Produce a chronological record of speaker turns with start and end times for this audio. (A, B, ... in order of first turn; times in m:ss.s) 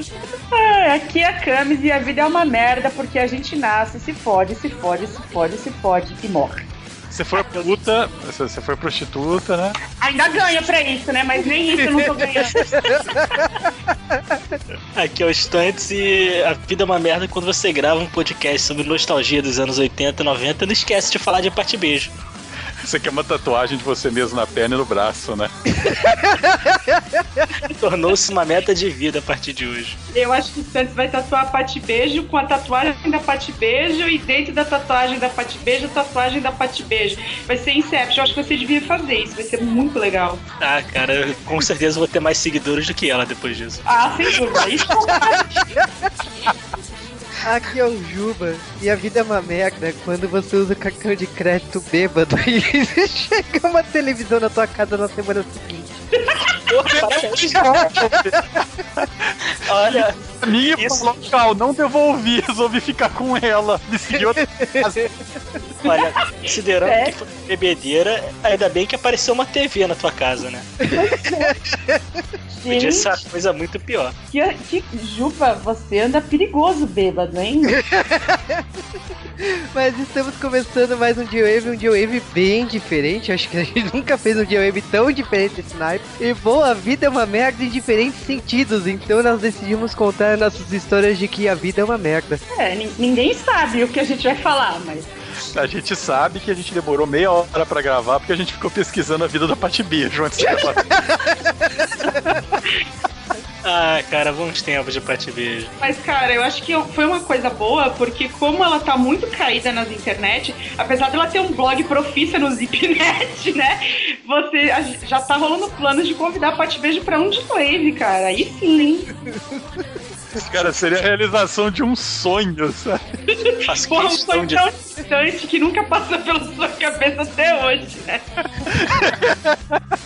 0:00.5-0:06.6 A
0:07.1-0:09.8 B
0:10.0-0:13.2 A
0:12.0-0:13.5 C
0:14.1-0:14.4 C
0:15.0-0:22.1 D
0:22.8-0:25.5 B
0:26.0-0:27.4 C
0:27.6-0:30.0 D
0:30.1-0:40.4 A
0:40.6-0:43.9 D
0:43.8-0:45.6 A
0:45.2-0:45.8 C
0:47.4-0:56.0 C
0:56.2-0:57.1 A
0:56.7-0:57.8 D
0:57.1-0:58.4 B
0:57.9-0:58.3 C
0:59.0-1:05.1 B
0:59.6-1:01.1 D
1:04.1-1:05.0 C
1:05.8-1:07.1 A
1:05.8-1:10.7 D
1:10.8-1:12.2 C
1:10.9-1:11.6 A
1:12.6-1:13.1 A
1:12.7-1:14.1 D
1:14.3-1:17.8 A
1:17.7-1:18.6 C
1:19.4-1:32.4 C
1:32.5-1:35.1 A
1:35.5-1:40.9 B
1:40.4-1:42.3 C
1:43.6-1:45.7 D
1:45.8-1:59.1 A
2:00.3-2:03.0 B
2:03.3-2:08.2 A
2:03.7-2:04.6 D
2:08.7-2:09.8 B